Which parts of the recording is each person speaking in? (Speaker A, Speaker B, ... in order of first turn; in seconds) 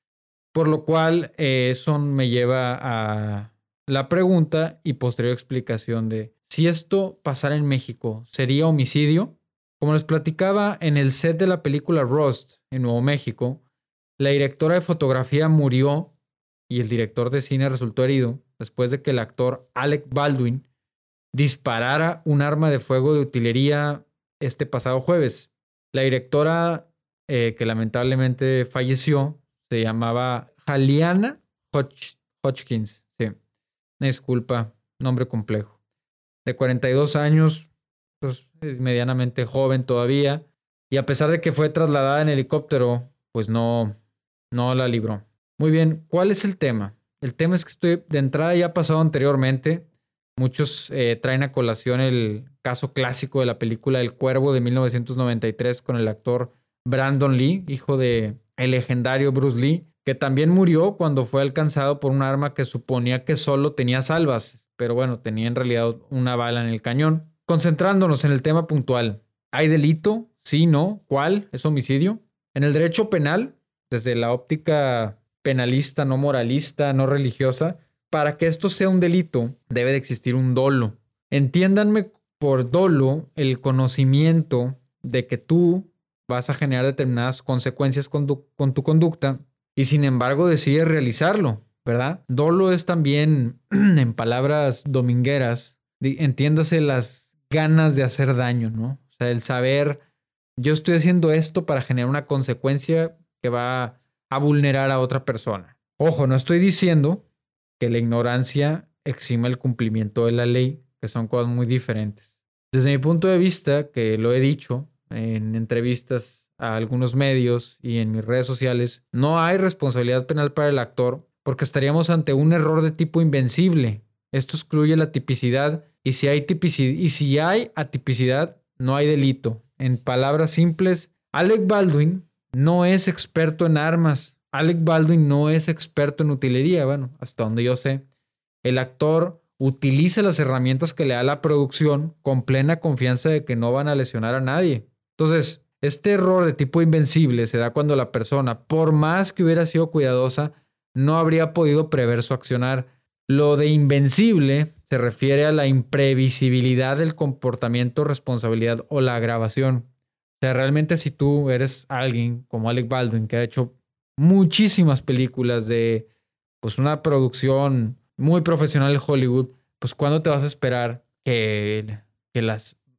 Speaker A: 0.5-13.6, 14.2-16.1, 16.7-20.6, 21.3-33.3, 34.0-35.8, 36.4-37.7, 38.2-43.9, 44.5-49.9, 50.4-100.0, 100.6-107.2, 107.8-138.0, 138.6-159.9, 160.4-166.1, 166.6-172.8